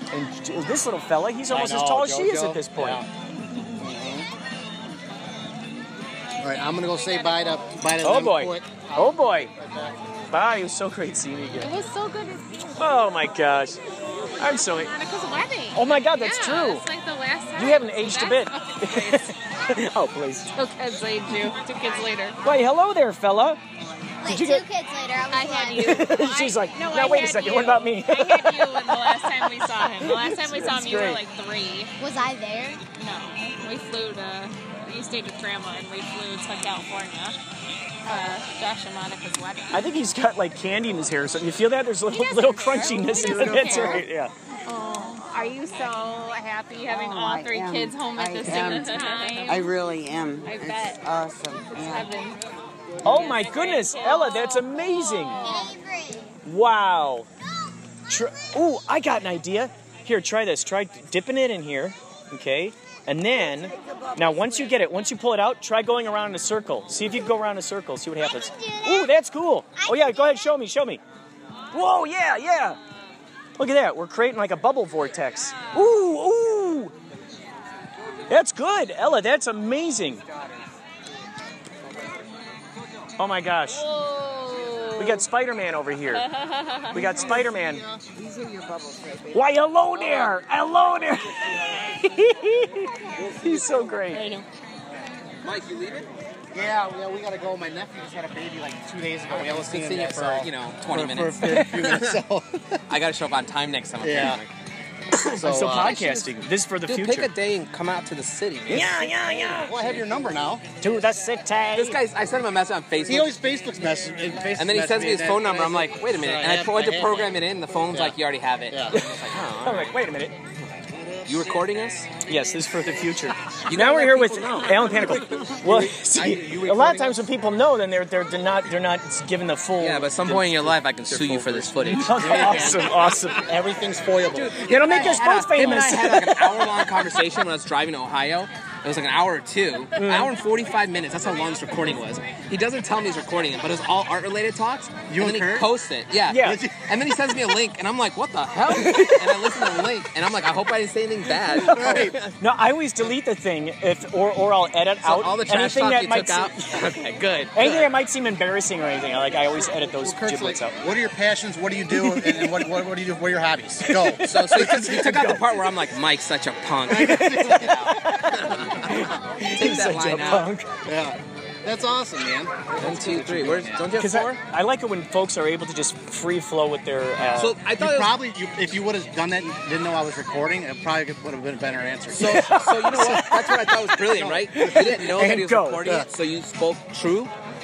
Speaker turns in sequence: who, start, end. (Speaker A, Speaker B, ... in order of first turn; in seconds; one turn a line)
Speaker A: 0.1-3.0
Speaker B: 1.5-3.1
Speaker B: 3.8-4.3
Speaker B: 6.4-9.9
Speaker A: 8.0-9.5
Speaker A: 10.3-11.8
Speaker C: 11.6-12.7
Speaker A: 12.8-13.8
Speaker A: 14.4-14.9
Speaker C: 14.4-19.4
Speaker A: 15.7-16.8
Speaker A: 17.6-20.5
Speaker C: 20.5-22.4
Speaker A: 22.4-23.6
Speaker D: 24.2-26.2
Speaker A: 24.2-24.6
Speaker C: 25.3-31.9
Speaker A: 25.8-29.5
Speaker A: 30.0-31.2
Speaker D: 32.0-32.8
Speaker C: 32.9-37.4
Speaker C: 38.0-39.9
Speaker A: 39.7-44.3
Speaker C: 42.1-44.0
Speaker C: 44.7-49.8
Speaker E: 46.9-52.1
Speaker C: 50.4-51.0
Speaker C: 51.7-52.4
Speaker A: 53.0-55.4
Speaker C: 53.1-55.7
Speaker D: 55.4-56.3
Speaker A: 56.4-57.3
Speaker A: 58.1-71.0
Speaker D: 68.4-69.1
Speaker D: 69.8-70.4
Speaker A: 71.7-72.8
Speaker A: 73.6-76.9
Speaker A: 78.3-80.2
Speaker A: 83.2-83.9
Speaker C: 83.8-85.2
Speaker A: 85.0-86.3
Speaker C: 86.1-87.0
Speaker A: 86.9-87.8
Speaker B: 87.5-88.0
Speaker E: 88.3-89.3
Speaker A: 89.3-94.3
Speaker C: 94.1-94.4
Speaker F: 95.4-96.1
Speaker B: 96.5-102.8
Speaker F: 99.3-102.2
Speaker F: 102.9-104.5
Speaker B: 104.0-104.4
Speaker B: 105.2-106.4
Speaker A: 105.3-107.3
Speaker F: 106.8-109.1
Speaker A: 108.7-109.8
Speaker B: 109.6-110.6
Speaker A: 110.8-112.0
Speaker F: 111.7-113.3
Speaker B: 113.0-117.3
Speaker F: 114.5-120.0
Speaker B: 118.7-119.0
Speaker A: 118.9-120.3
Speaker F: 121.2-122.1
Speaker A: 122.2-133.4
Speaker F: 123.7-125.5
Speaker B: 125.4-127.2
Speaker F: 129.8-132.9
Speaker B: 132.1-135.9
Speaker F: 134.3-152.3
Speaker A: 134.6-137.0
Speaker A: 139.9-140.3
Speaker B: 145.1-145.7
Speaker A: 146.3-146.6
Speaker B: 146.3-146.8
Speaker A: 148.7-149.4
Speaker A: 151.5-157.0
Speaker B: 151.6-152.2
Speaker F: 155.0-157.9
Speaker A: 157.5-160.7
Speaker B: 159.8-165.0
Speaker A: 162.0-162.6
Speaker A: 163.8-165.4
Speaker F: 164.2-170.4
Speaker B: 166.9-167.8
Speaker A: 167.0-170.7
Speaker B: 170.8-173.9
Speaker F: 172.8-174.4
Speaker A: 174.0-177.5
Speaker B: 177.2-182.6
Speaker F: 177.3-178.2
Speaker F: 182.1-187.3
Speaker A: 182.2-183.7
Speaker B: 184.1-185.2
Speaker A: 184.5-186.0